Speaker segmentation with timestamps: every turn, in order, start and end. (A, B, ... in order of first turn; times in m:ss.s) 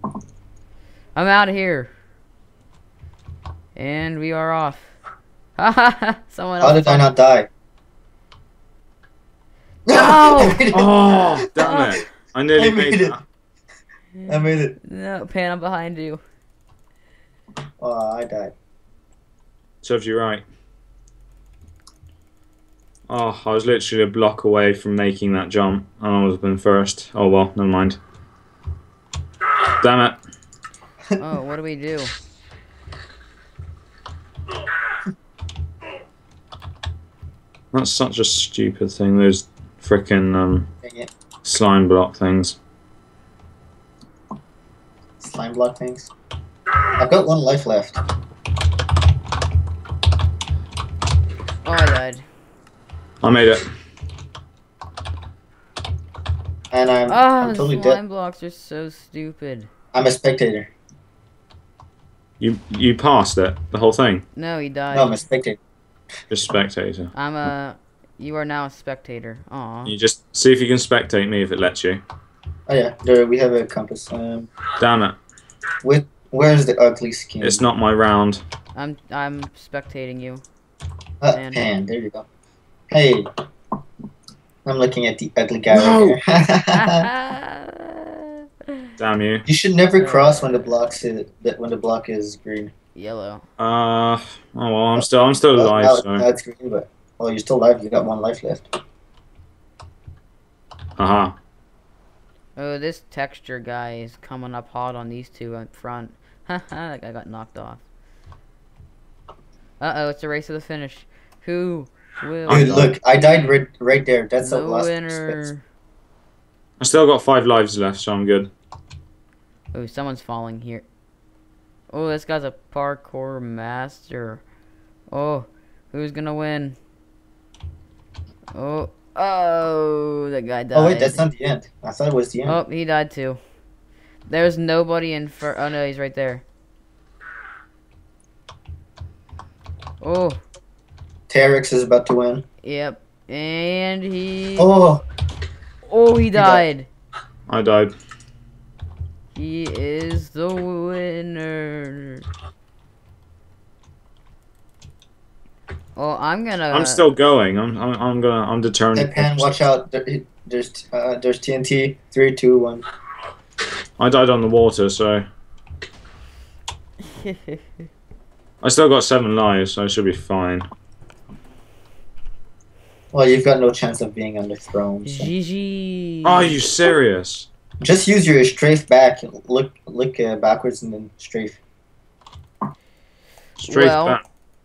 0:01.1-0:01.9 A
0:03.8-0:04.9 A
0:05.6-0:07.1 A
0:06.6-0:07.5 B
0:09.9-0:11.4 B
0:09.9-0:10.6 A
0:10.7-0:13.2 C
0:11.6-0:12.0 A
0:12.6-0:13.2 B
0:14.2-0:16.2 A
0:14.3-0:14.8 B
0:17.8-0:18.5 B
0:19.8-0:20.4 C
0:23.1-0:28.0 C
0:29.8-0:30.2 C
0:31.2-0:32.1 A
0:37.7-0:40.7 C
0:40.8-0:41.1 B
0:41.4-0:42.6 C
0:45.2-0:46.1 B
0:47.0-0:47.9 B
0:51.6-0:52.2 A
0:53.2-0:53.6 C
0:56.7-0:58.0 B
0:57.1-0:59.7 A
0:59.9-1:00.7 B
1:02.4-1:04.2 C
1:04.3-1:05.2 A
1:04.9-1:05.6 B
1:06.3-1:07.1 C
1:07.1-1:09.9 A
1:09.8-1:12.0 C
1:12.7-1:14.5 B
1:14.8-1:15.2 C
1:15.8-1:17.6 B
1:17.4-1:18.4 C
1:18.7-1:20.4 A
1:21.2-1:22.2 B
1:21.3-1:21.7 A
1:22.9-1:23.2 B
1:24.6-1:27.1 B
1:25.7-1:26.2 C
1:26.7-1:28.8 A
1:29.0-1:29.4 C
1:29.4-1:32.7 B
1:30.0-1:30.9 A
1:32.9-1:33.4 A
1:33.6-1:36.2 C
1:34.9-1:38.7 B
1:41.0-1:41.3 C
1:42.6-1:47.8 A
1:49.8-1:53.6 A
1:52.4-1:52.9 C
1:52.5-1:55.4 B
1:54.4-1:55.6 A
1:56.8-1:58.5 C
1:59.7-2:00.8 A
2:01.9-2:04.4 A
2:05.1-2:06.8 A
2:08.5-2:11.2 A
2:10.7-2:12.6 B
2:12.4-2:13.4 A
2:14.3-2:16.4 A
2:20.0-2:20.4 A
2:21.3-2:22.4 B
2:22.6-2:24.7 A
2:24.6-2:25.0 B
2:25.8-2:26.9 A
2:26.3-2:26.6 B
2:27.5-2:27.9 C
2:29.3-2:32.2 A
2:36.0-2:37.1 A
2:36.7-2:39.6 C
2:38.9-2:42.8 B
2:44.0-2:45.2 C
2:47.2-2:47.6 A
2:48.6-2:50.7 C
2:53.1-2:55.3 B
2:55.0-2:56.6 A
2:56.2-2:57.5 C
2:57.8-3:01.6 B
3:03.6-3:04.2 C
3:03.7-3:04.2 A